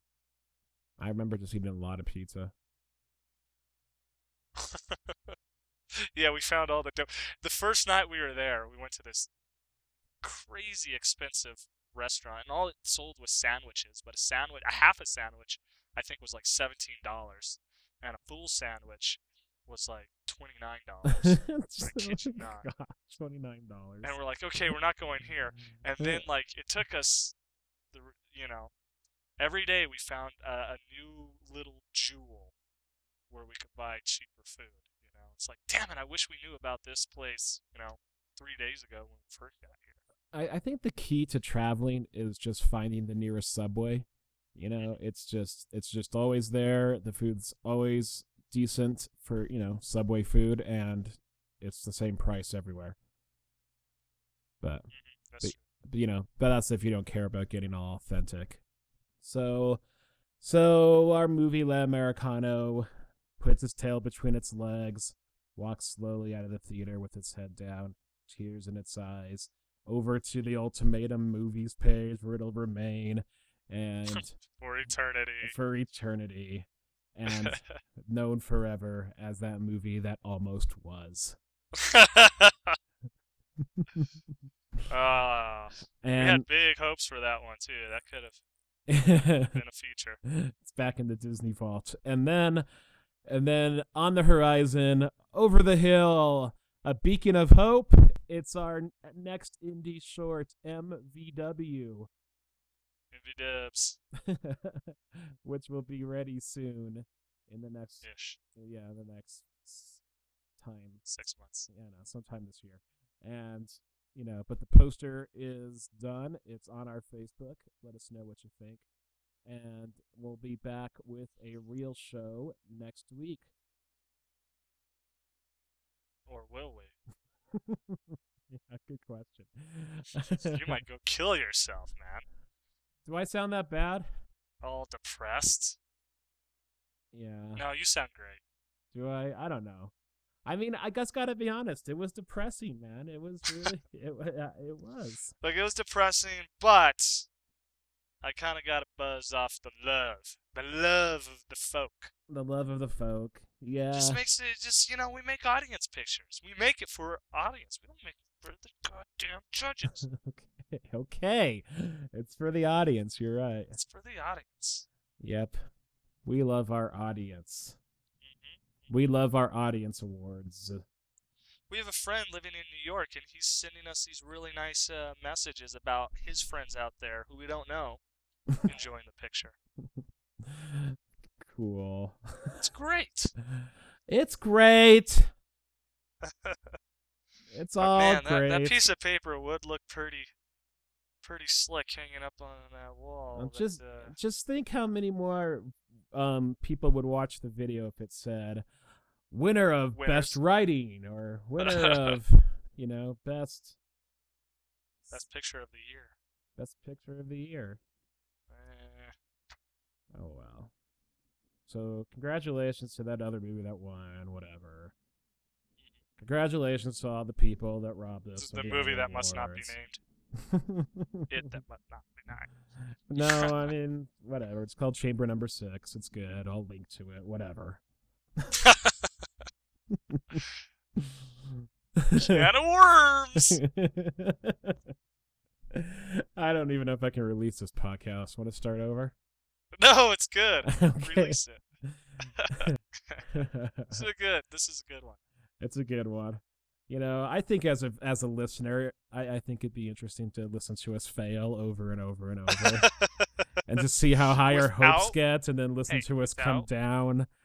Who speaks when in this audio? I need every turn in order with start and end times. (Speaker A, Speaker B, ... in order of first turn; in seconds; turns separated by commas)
Speaker A: 1.0-2.5, Speaker B: 4.5-5.3, Speaker B: 5.9-9.3, Speaker B: 10.2-22.6, Speaker A: 21.0-24.1, Speaker B: 24.0-27.3, Speaker A: 26.0-26.2, Speaker B: 27.9-28.7, Speaker B: 29.4-32.5, Speaker B: 33.3-40.0, Speaker A: 40.3-53.0, Speaker A: 54.6-54.9, Speaker B: 54.9-55.6, Speaker A: 55.4-58.6, Speaker A: 59.2-59.8, Speaker A: 60.4-62.9, Speaker A: 63.4-74.4, Speaker B: 74.1-75.5, Speaker A: 75.4-81.4, Speaker B: 77.3-77.8, Speaker B: 81.7-82.8, Speaker A: 83.6-84.1, Speaker B: 84.9-88.4, Speaker A: 86.0-86.5, Speaker A: 88.9-89.6, Speaker B: 89.1-90.2, Speaker A: 90.2-92.7, Speaker A: 93.2-102.1, Speaker B: 103.1-104.0, Speaker A: 104.1-110.0, Speaker B: 108.0-108.4, Speaker A: 110.6-111.0, Speaker B: 111.0-111.7, Speaker A: 111.7-118.8, Speaker A: 119.4-123.5, Speaker B: 126.3-126.9, Speaker A: 127.5-130.7, Speaker B: 130.2-132.2, Speaker A: 133.1-134.1, Speaker B: 134.6-135.8, Speaker A: 137.1-137.6, Speaker B: 137.6-138.4, Speaker A: 138.9-139.9, Speaker A: 140.4-145.3, Speaker B: 145.4-147.3, Speaker B: 148.2-152.1, Speaker A: 152.3-154.2, Speaker B: 153.9-160.0, Speaker A: 159.9-163.8, Speaker B: 163.7-164.8, Speaker A: 165.2-165.6, Speaker A: 166.2-167.8, Speaker B: 168.2-168.7, Speaker A: 168.9-170.8, Speaker B: 171.7-178.0, Speaker B: 178.6-179.5, Speaker A: 180.4-182.6, Speaker B: 182.6-183.3, Speaker A: 183.5-185.3, Speaker B: 186.2-186.8, Speaker A: 187.5-188.8, Speaker B: 187.8-190.3, Speaker B: 191.2-194.1, Speaker A: 193.3-198.6, Speaker A: 199.3-203.8, Speaker B: 199.9-200.4, Speaker B: 201.6-202.2, Speaker B: 205.1-206.1, Speaker A: 206.6-207.8, Speaker B: 208.5-209.1, Speaker A: 210.1-210.7, Speaker A: 211.7-214.9, Speaker A: 216.2-219.8, Speaker B: 218.3-220.0, Speaker A: 220.4-221.5, Speaker B: 221.3-222.5, Speaker A: 223.1-227.8, Speaker B: 223.2-223.7, Speaker B: 228.6-229.2, Speaker A: 229.9-230.4, Speaker A: 232.0-232.5, Speaker B: 232.2-233.6, Speaker A: 233.4-234.8, Speaker A: 235.7-239.1, Speaker B: 239.8-241.6, Speaker A: 240.6-242.0, Speaker B: 242.4-245.2, Speaker A: 243.3-244.0, Speaker A: 245.6-252.9, Speaker B: 252.5-253.3, Speaker A: 253.7-257.3, Speaker B: 254.4-255.2, Speaker B: 255.9-256.7